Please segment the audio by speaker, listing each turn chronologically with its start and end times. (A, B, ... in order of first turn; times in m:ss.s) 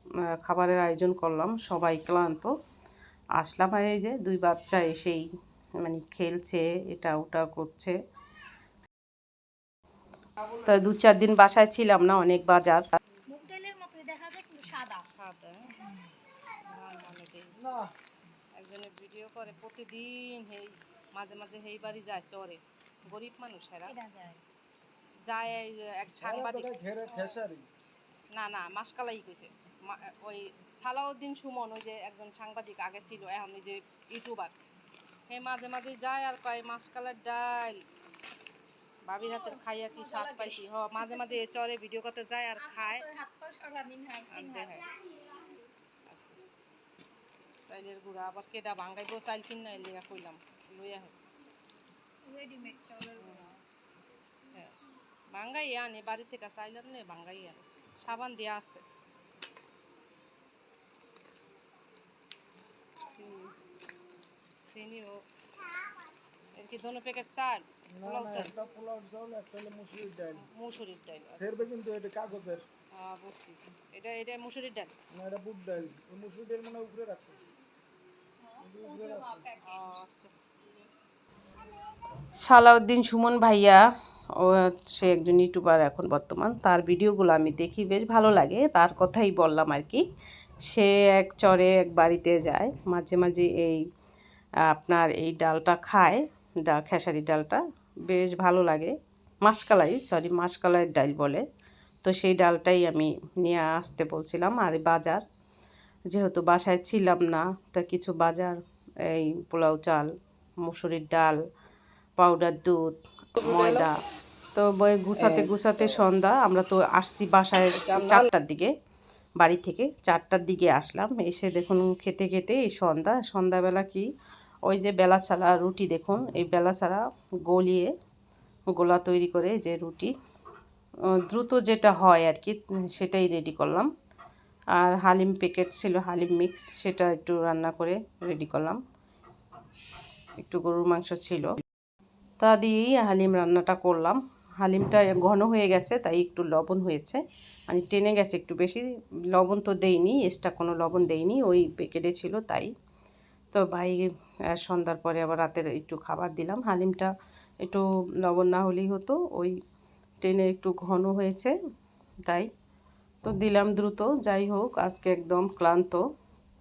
0:00.3-0:02.5 A
0:03.4-0:05.2 A
0:05.8-0:08.0 A
0:10.6-0:12.8 A
0:13.3-0:15.1 B
0:15.1-0:15.7 C
0:16.7-0:17.5 C
0:17.6-0:17.9 D
0:18.6-0:24.0 C
0:23.9-0:24.4 B
0:25.2-0:27.4 C
0:26.2-0:27.7 D
0:28.3-0:34.6 C
0:35.3-0:37.8 C
0:39.1-0:43.0 C
0:39.2-0:41.4 B
0:42.6-0:44.9 B
0:44.3-0:44.9 C
0:46.1-0:46.4 C
0:47.6-0:51.1 C
0:52.2-0:53.6 B
0:53.2-0:53.5 C
0:55.3-0:58.8 C
1:03.0-1:03.6 C
1:04.6-1:05.2 C
1:06.6-1:08.5 C
1:07.9-1:10.5 D
1:10.4-1:11.6 C
1:11.3-1:12.6 D
1:12.9-1:14.9 C
1:15.1-1:17.4 D
1:18.4-1:20.0 B
1:18.6-1:19.5 D
1:19.6-1:21.0 C
1:22.4-1:23.8 A
1:24.4-1:30.0 A
1:30.6-1:33.8 A
1:34.7-1:41.4 A
1:42.0-1:45.2 A
1:46.1-1:50.1 A
1:50.6-1:51.4 A
1:52.2-1:54.0 A
1:53.4-1:53.9 C
1:54.5-1:58.7 A
1:55.2-1:55.5 C
1:57.7-1:58.3 C
1:59.4-2:04.0 A
2:04.7-2:07.9 A
2:08.7-2:10.1 A
2:11.2-2:13.9 A
2:14.8-2:18.8 A
2:20.4-2:21.5 A
2:22.4-2:32.7 A
2:33.5-2:37.1 A
2:37.6-2:39.6 A
2:40.2-2:41.6 A
2:43.2-2:46.0 A